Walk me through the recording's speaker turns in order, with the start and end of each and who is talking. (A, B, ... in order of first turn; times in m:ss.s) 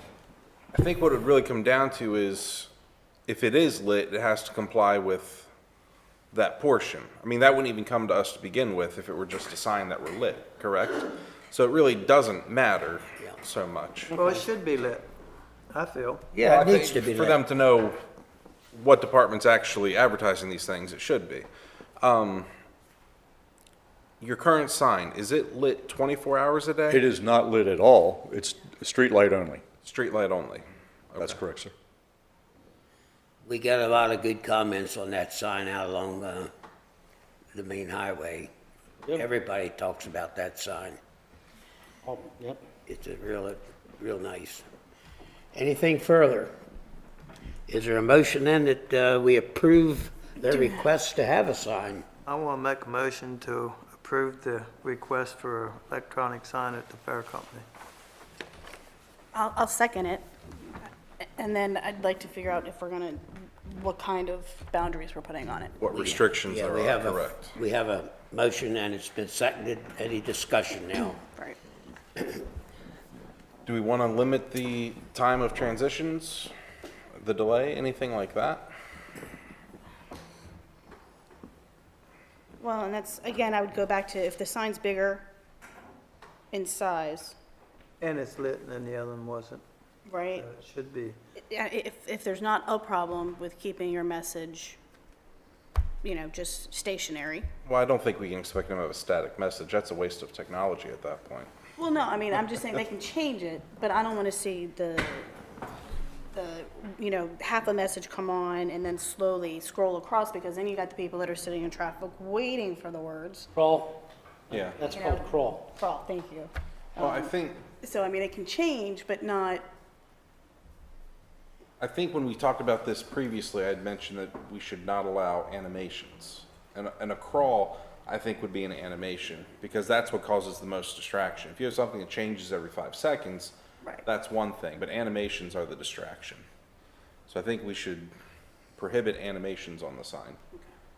0:00.7-0:02.7 A
0:03.3-0:05.5 A
0:06.3-0:14.1 A
0:14.1-0:14.4 B
0:14.1-0:15.1 C
0:15.7-0:16.3 C
0:16.3-0:17.4 D
0:16.4-0:18.0 A
0:18.7-0:21.5 A
0:22.0-0:22.5 A
0:24.2-0:27.0 A
0:26.9-0:29.6 E
0:29.8-0:31.4 A
0:31.2-0:31.7 E
0:33.4-0:36.5 D
0:37.5-0:38.5 D
0:39.1-0:41.0 D
0:42.0-0:42.6 B
0:42.8-0:44.7 D
0:45.5-0:46.5 D
0:47.7-0:52.0 D
0:52.2-0:57.6 C
0:59.3-1:00.2 F
1:00.8-1:05.8 F
1:05.8-1:07.5 A
1:05.9-1:11.2 D
1:11.2-1:11.6 F
1:13.6-1:16.5 A
1:17.2-1:18.7 A
1:22.6-1:25.3 F
1:26.5-1:27.3 F
1:28.0-1:29.6 C
1:30.1-1:30.5 F
1:30.4-1:31.2 C
1:31.5-1:34.8 F
1:36.0-1:37.5 F
1:37.6-1:41.5 A
1:41.8-1:45.3 F
1:46.3-1:53.5 F
1:53.5-1:55.7 B
1:54.5-1:54.8 A
1:54.8-1:59.6 F
1:57.0-1:57.6 A
2:01.8-2:16.4 A
2:17.3-2:18.1 A
2:18.8-2:20.4 A